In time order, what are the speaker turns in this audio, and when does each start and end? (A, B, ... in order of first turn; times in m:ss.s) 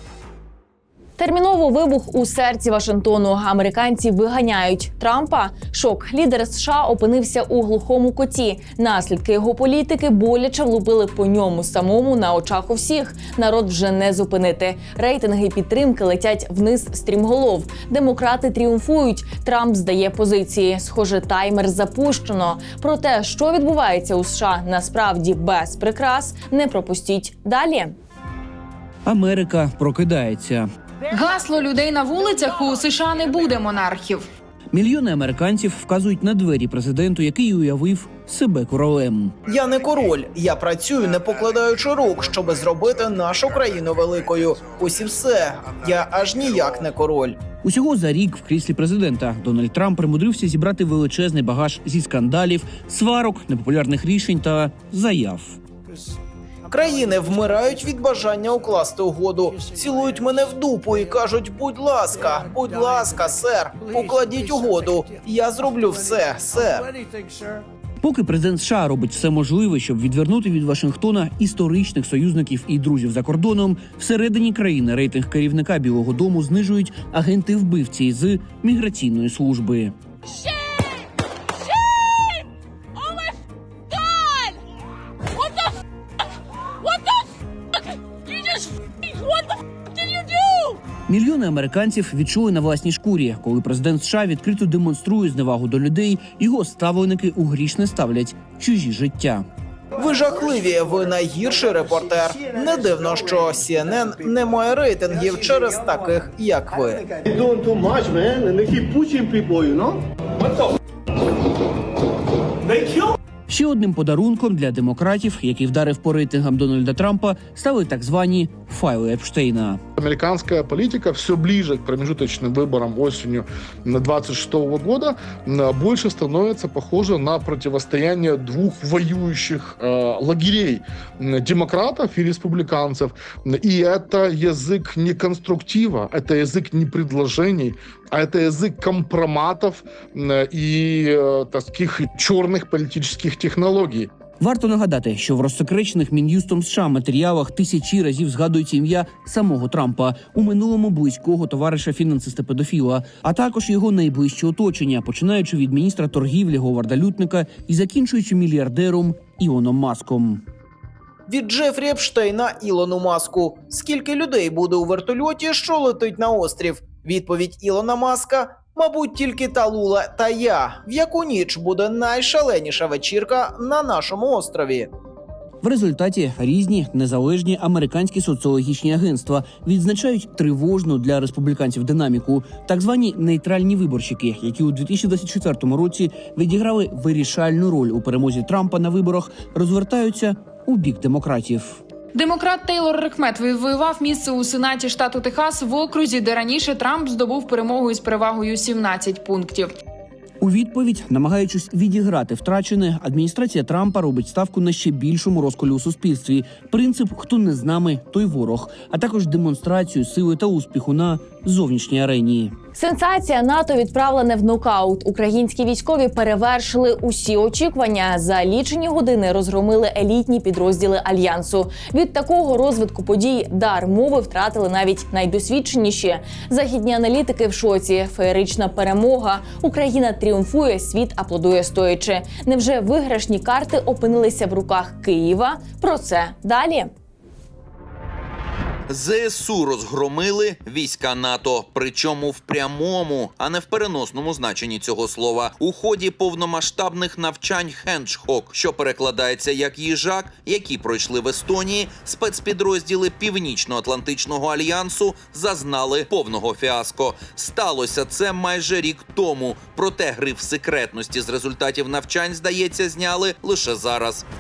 0:01.2-0:27.9 A
0:29.1-0:30.7 B
0:31.1-0:34.3 C
0:34.7-0:39.4 B
0:39.5-0:47.4 D
0:47.6-0:55.6 B
0:56.7-1:06.9 D
1:08.0-1:19.9 B
1:31.1-1:39.5 B
1:40.0-1:47.1 D
1:53.5-1:59.8 B
2:00.0-2:24.1 E
2:24.4-2:40.4 B
2:41.3-2:54.9 D
2:55.6-3:11.8 B
3:12.1-3:19.7 C
3:20.4-3:32.6 B
3:32.8-3:56.9 A
3:58.9-4:24.3 F